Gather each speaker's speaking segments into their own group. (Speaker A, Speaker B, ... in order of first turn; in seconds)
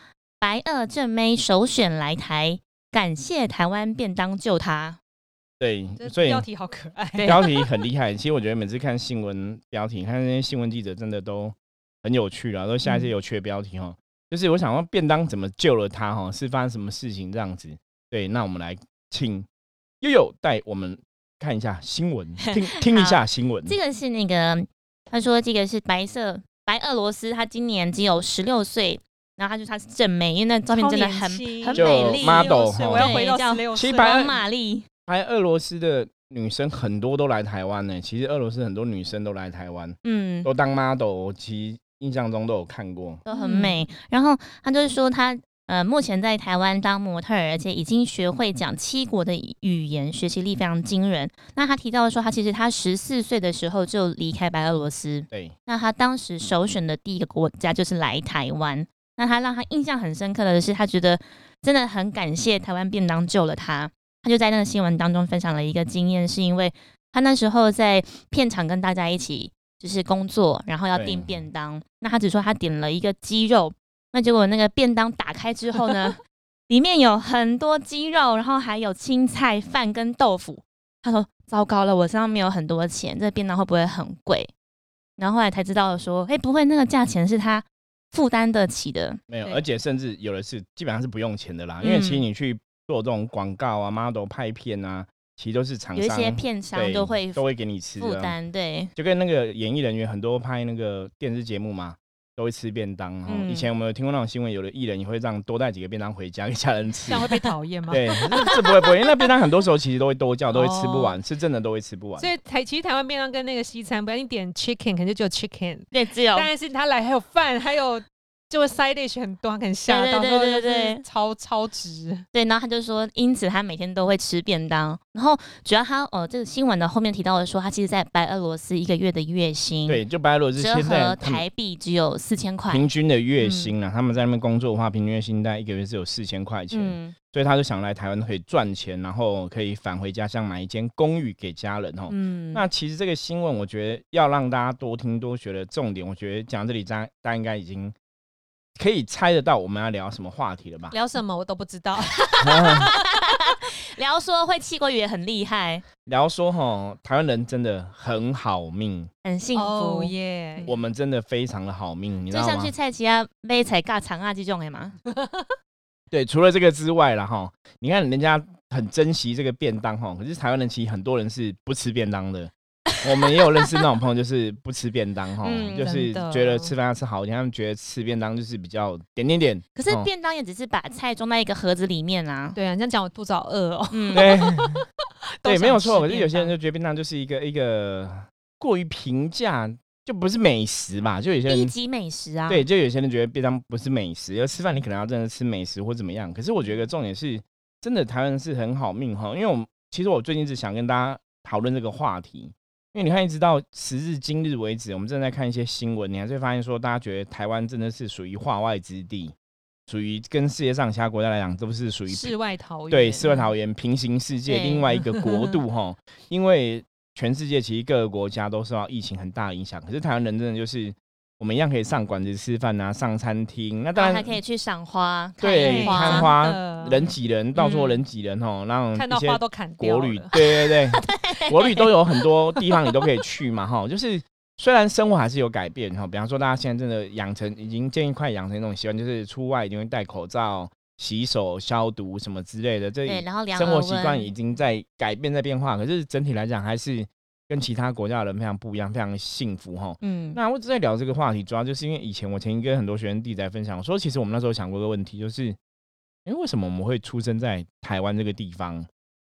Speaker A: 0.4-5.0, 7.2-7.5, 22.4-34.9, 40.0-40.5, 43.2-84.5, 85.2-89.2, 91.8-92.2, 95.9-97.4, 98.0-98.9, 103.2-103.7, 115.9-116.5, 119.9-121.0, 122.3-130.0, 130.6-132.9, 133.4-133.7, 136.7-137.1, 142.1-142.6, 152.2-155.8, 159.2-160.7, 162.3-164.9, 175.4-175.9, 179.7-182.6, 183.9-184.3, 191.5-192.6, 214.5-214.9, 223.9-226.3, 227.5-228.0, 230.3-231.9, 243.1-244.3, 250.0-250.4
Speaker B: 5.6-6.5, 7.2-19.5, 20.0-23.8, 31.7-33.2, 33.7-34.3, 35.1-43.2, 70.9-71.4, 89.3-98.3, 99.0-107.3, 107.9-112.3, 129.9-131.4, 132.7-147.9, 148.8-150.9, 152.4-152.9, 156.0-159.1, 160.7-162.7, 166.1-180.1, 184.1-184.8, 185.4-191.7, 192.5-209.3, 209.9-212.3, 212.9-224.4, 225.4-255.6, 256.2-258.9
Speaker C: 6.0-7.5, 30.7-34.4, 43.3-43.8, 107.0-108.7, 110.5-111.2, 112.2-122.2, 150.9-153.1, 159.5-160.7, 165.1-165.4, 175.8-176.7, 182.5-184.8, 185.4-186.5, 212.1-213.3, 215.2-215.5, 225.6-227.0, 228.9-230.3